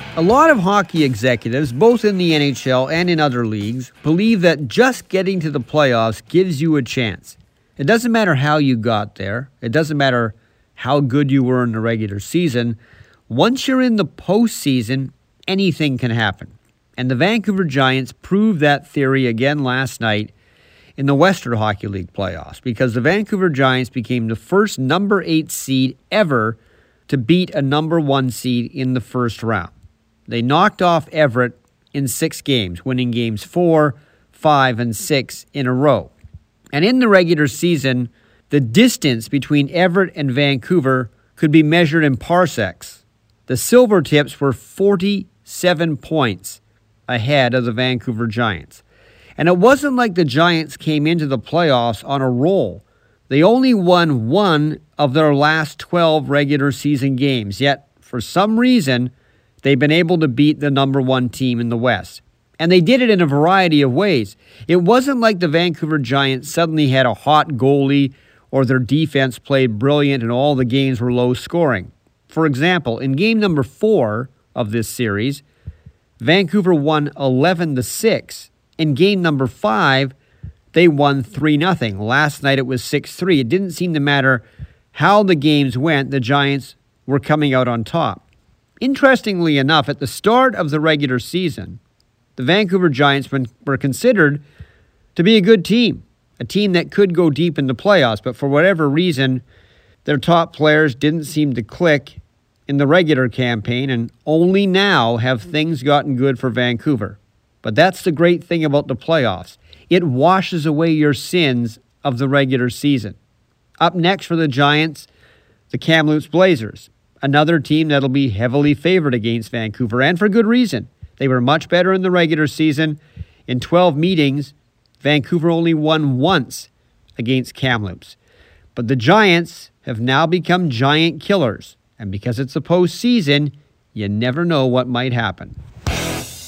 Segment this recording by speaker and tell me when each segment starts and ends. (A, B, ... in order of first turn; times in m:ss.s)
0:00.2-0:12.8 A
0:13.3-0:20.3 A
0:21.0-0:29.7 A
0:30.3-0:36.1 A
0:36.7-0:48.8 A
0:49.4-0:59.1 A
0:59.6-1:15.4 A
1:16.2-1:20.1 A
1:20.7-1:28.2 A
1:28.8-1:31.8 A
1:32.4-1:34.4 A
1:35.1-1:39.4 A
1:40.0-1:53.2 A
1:53.8-1:55.1 A
1:55.7-2:08.2 A
2:08.7-2:15.6 A